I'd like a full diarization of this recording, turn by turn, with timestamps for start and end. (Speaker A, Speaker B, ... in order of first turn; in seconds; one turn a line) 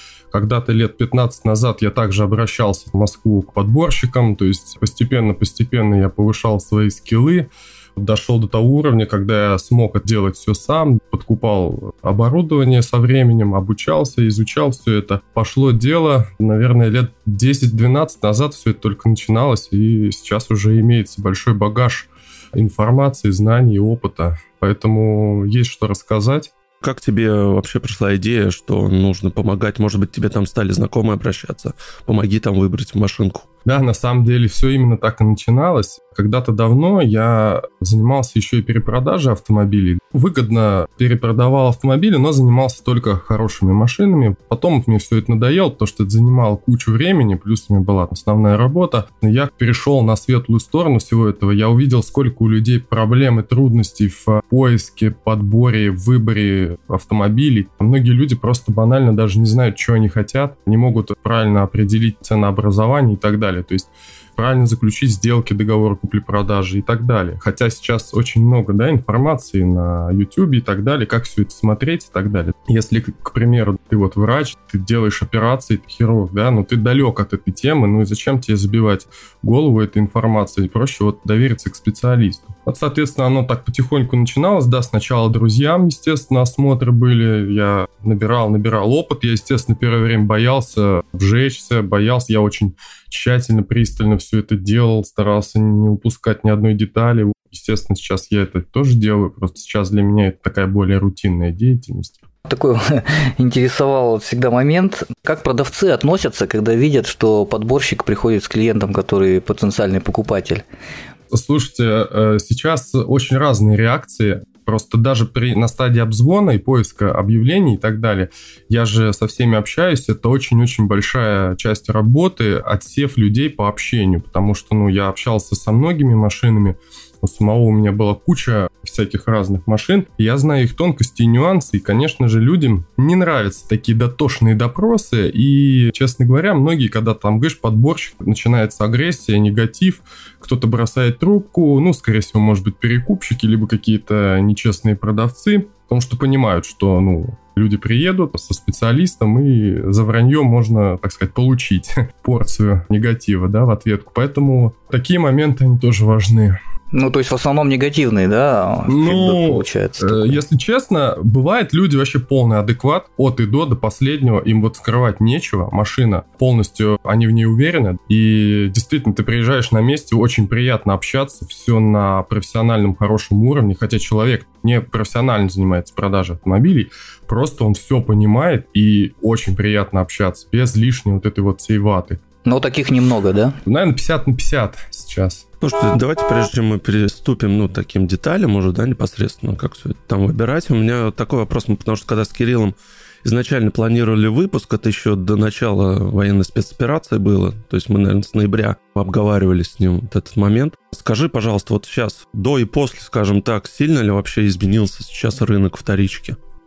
Speaker A: 0.3-26.5
Speaker B: 26.8-33.5
Speaker A: 33.6-102.1
Speaker C: 102.5-110.6
Speaker A: 111.3-156.6
Speaker C: 156.9-160.4
Speaker A: 158.9-182.2
Speaker C: 182.4-183.6
Speaker A: 183.7-185.4
Speaker B: 185.6-206.4